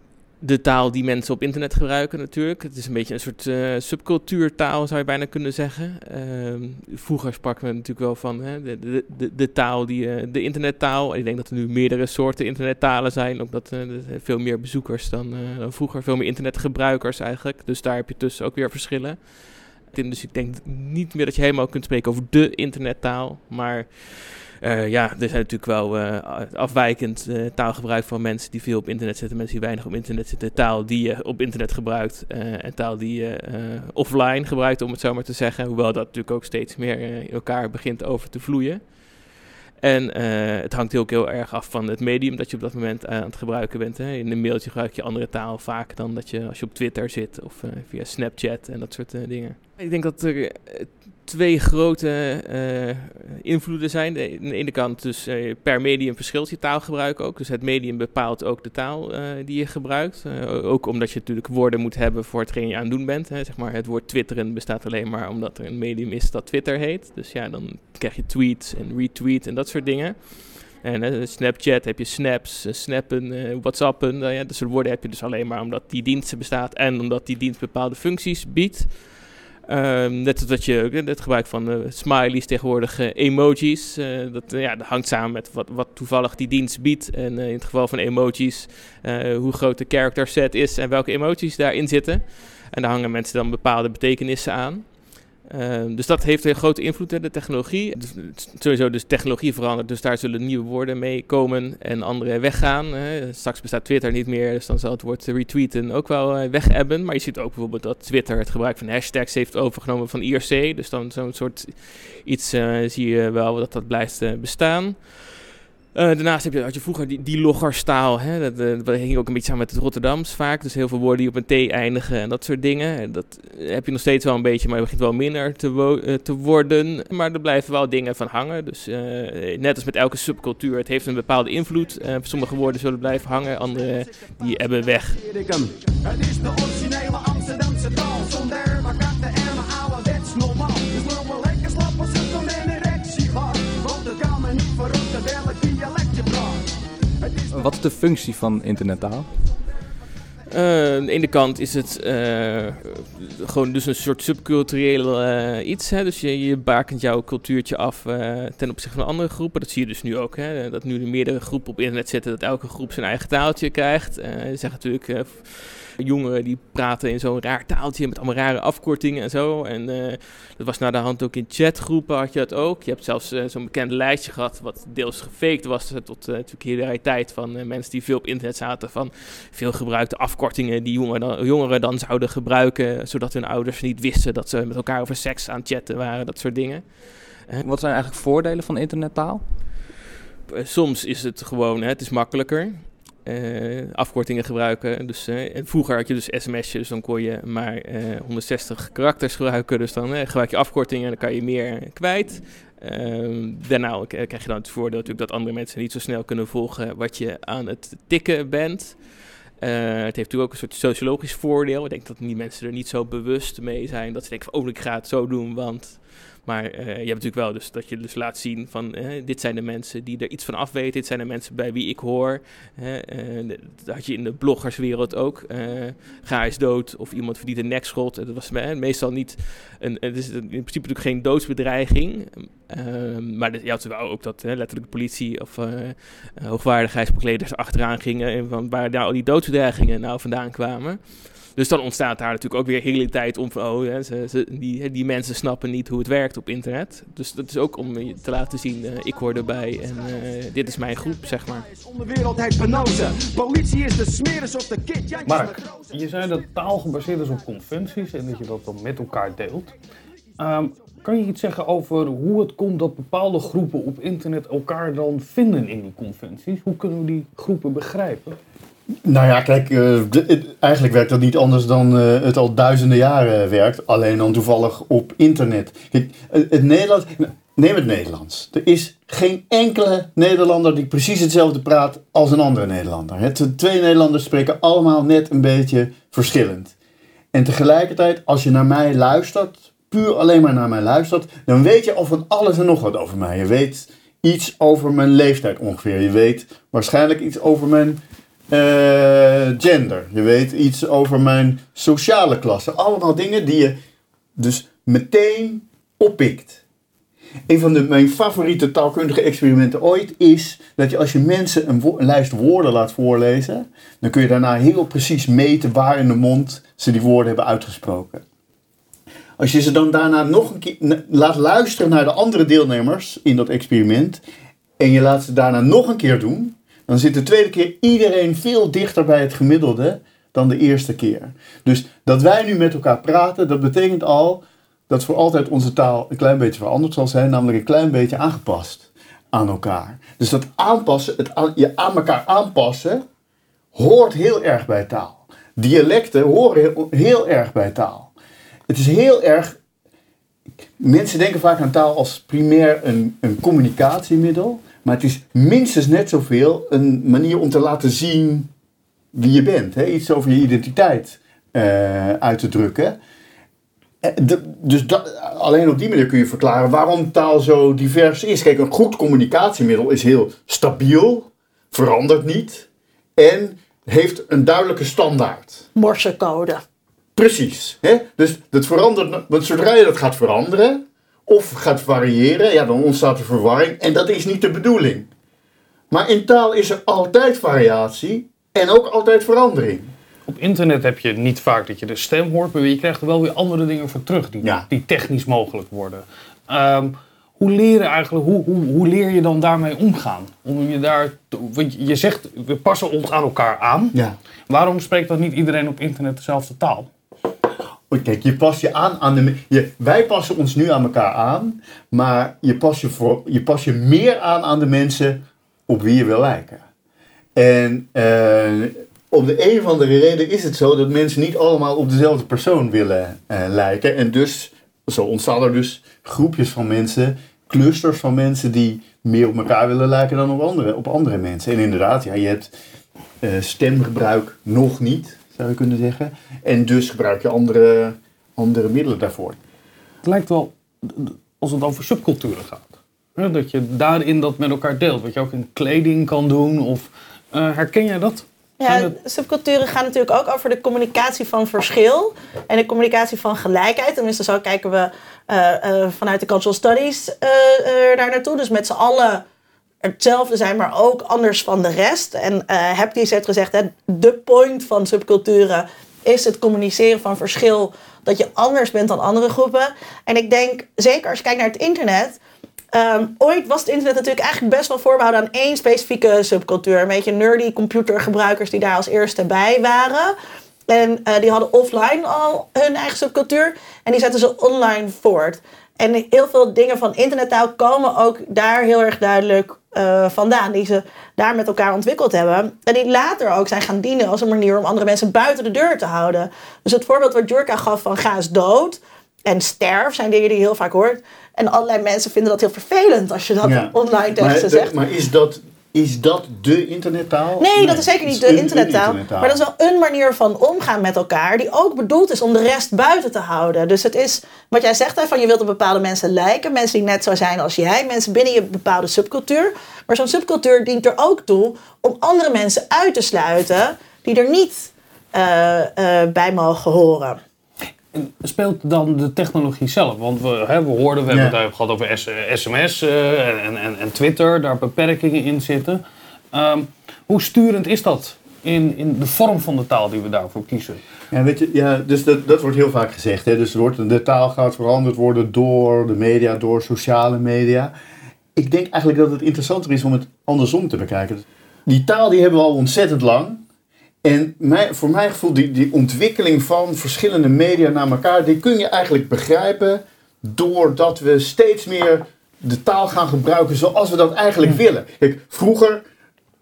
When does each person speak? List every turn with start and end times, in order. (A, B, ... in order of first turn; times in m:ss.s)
0:00.4-0:39.3 A
0:39.8-2:15.2 A
2:13.8-2:27.7 B
2:27.5-2:29.3 C
2:30.5-3:07.6 A
3:07.6-3:09.4 C
3:10.5-4:11.7 A
4:11.5-4:16.5 B
4:15.2-4:19.7 D
4:20.4-4:28.4 D
4:29.0-4:46.7 E
4:47.3-5:03.8 E
5:04.4-5:06.6 E
5:07.5-5:18.2 E
5:19.4-5:24.2 E
5:24.8-5:43.0 E
5:43.8-5:48.1 E
5:48.7-5:49.6 E
5:50.8-5:58.5 E
5:59.1-6:03.0 E
6:04.0-6:15.7 E
6:15.8-6:16.6 F
6:17.2-6:25.1 E
6:25.9-6:29.9 E
6:30.3-6:44.0 D
6:34.4-6:34.7 E
6:44.5-6:46.9 D
6:47.9-6:56.6 E
6:57.4-7:12.5 E
7:13.2-7:19.4 E
7:20.0-7:28.9 D
7:28.6-7:39.2 F
7:39.8-7:52.2 F
7:52.7-8:00.2 F
8:00.7-8:24.7 F
8:23.4-8:29.4 E
8:27.4-8:47.2 F
8:47.9-8:55.8 D
8:51.1-8:51.4 E
8:56.3-9:00.8 D
9:01.1-9:07.7 E
9:08.4-9:13.4 E
9:14.0-9:25.8 E